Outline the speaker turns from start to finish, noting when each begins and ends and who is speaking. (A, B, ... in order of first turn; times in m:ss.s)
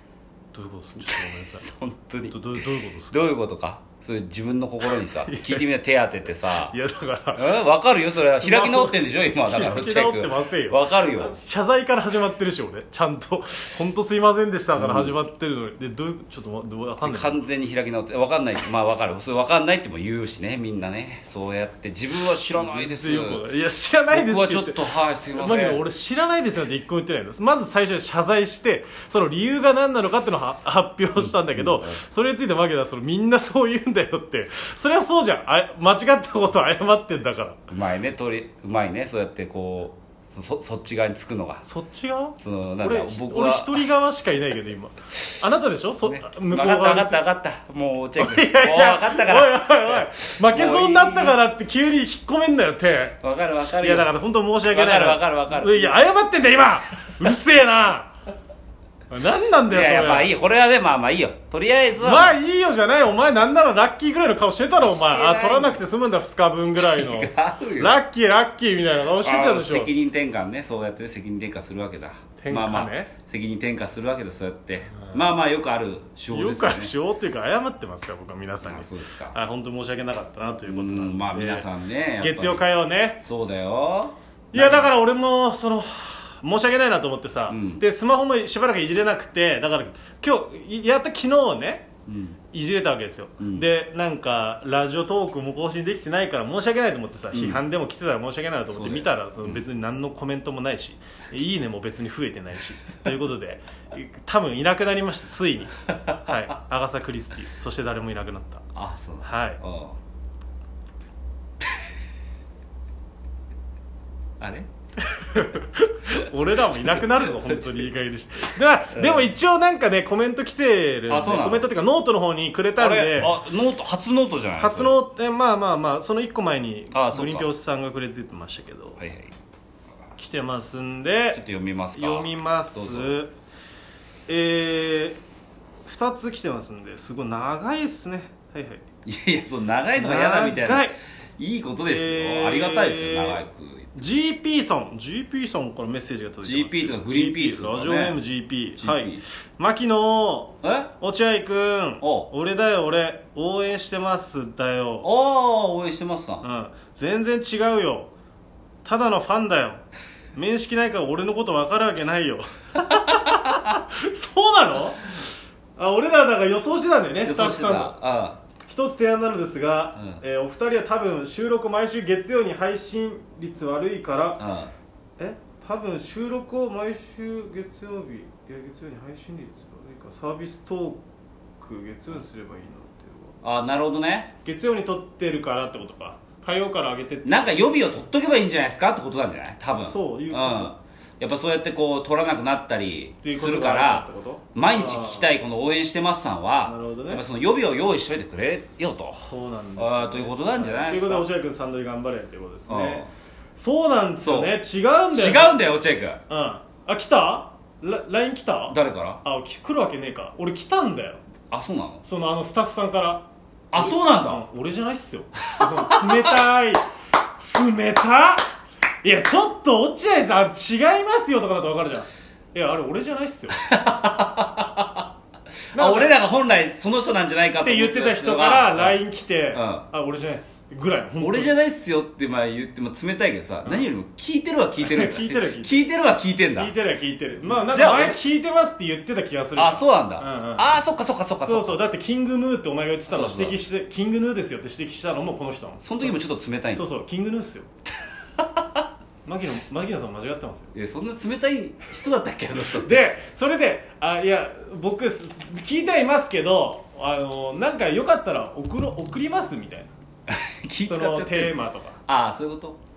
0:00.5-0:01.7 A
0:01.1-0:06.8 B
0:02.3-0:03.2 A
0:05.2-0:05.6 A
0:06.5-0:07.5 A
0:07.3-0:11.4 B
0:08.4-0:17.4 A
0:14.8-0:15.2 B
0:17.0-0:23.4 B
0:22.5-0:37.6 A
0:24.1-0:25.8 B
0:31.2-0:32.0 B
0:37.7-0:41.6 B
0:41.6-0:47.2 A
0:42.4-0:43.7 B
0:46.0-0:51.4 B
0:48.2-0:53.2 A
0:53.2-0:54.1 B
0:53.8-0:58.1 A
0:54.6-0:56.0 B
0:59.1-1:00.3 A
0:59.7-1:02.4 B
1:02.0-1:09.9 A
1:04.8-1:05.8 B
1:06.8-1:07.9 B
1:09.2-1:16.9 B
1:12.4-1:13.1 A
1:15.0-1:15.2 A
1:16.3-1:21.7 A
1:18.6-1:19.4 B
1:20.6-1:22.7 B
1:22.2-1:23.2 A
1:23.2-1:24.9 B
1:24.5-1:31.9 A
1:27.5-1:27.8 B
1:32.1-1:32.4 B
1:32.5-1:48.6 A
1:33.4-1:33.6 B
1:37.3-1:37.6 B
1:38.7-1:39.5 B
1:45.9-1:46.2 B
1:48.7-1:50.0 B
1:49.2-1:49.6 A
1:54.4-1:54.7 B
1:55.0-2:03.3 A
1:56.8-1:57.6 B
1:58.9-1:59.3 B
2:01.1-2:01.7 B
2:02.8-2:04.9 B
2:04.6-2:09.0 A
2:06.9-2:07.5 B
2:09.0-2:09.3 B
2:10.2-2:11.4 A
2:11.3-2:13.2 B
2:11.9-2:13.3 A
2:14.3-2:15.2 A
2:15.8-2:18.8 A
2:19.0-2:23.9 B
2:20.0-2:21.0 A
2:21.8-2:23.4 A
2:23.9-2:35.1 A
2:26.4-2:28.2 B
2:28.8-2:29.2 B
2:30.6-2:30.9 B
2:32.0-2:32.3 B
2:35.0-2:36.4 B
2:36.4-2:38.1 A
2:38.8-2:39.8 A
2:40.3-2:48.0 A
2:47.2-2:48.4 B
2:48.6-2:54.4 A
2:50.0-2:50.2 B
2:54.4-2:54.7 B
2:55.2-3:01.0 A
3:01.6-3:03.4 A
3:03.4-3:04.3 B
3:04.4-3:07.7 A
3:07.2-3:19.2 B
3:09.8-3:10.7 A
3:13.2-3:15.3 A
3:16.6-3:17.2 A
3:19.2-3:25.6 A
3:19.8-3:21.3 B
3:22.7-3:23.1 B
3:24.2-3:24.6 B
3:25.1-3:26.2 B
3:26.3-3:31.2 A
3:28.7-3:29.2 B
3:31.5-3:32.0 B
3:32.0-3:36.8 A
3:33.7-3:34.4 B
3:35.6-3:36.3 B
3:37.4-3:38.5 A
3:39.0-3:43.6 A
3:43.5-3:45.1 B
3:45.7-3:46.1 A
3:45.7-3:49.0 B
3:47.6-3:51.5 A
3:49.5-3:49.8 B
3:51.2-3:56.7 B
3:54.8-3:55.8 A
3:56.6-4:00.8 A
3:57.5-3:58.2 B
3:59.6-4:01.8 B
4:01.4-4:06.2 A
4:03.1-4:03.6 B
4:05.8-4:06.8 B
4:06.7-4:07.7 A
4:08.4-4:08.8 B
4:09.2-4:10.7 A
4:10.7-4:13.0 B
4:12.5-4:19.9 A
4:20.3-4:21.5 B
4:20.9-4:22.0 A
4:22.0-4:22.8 B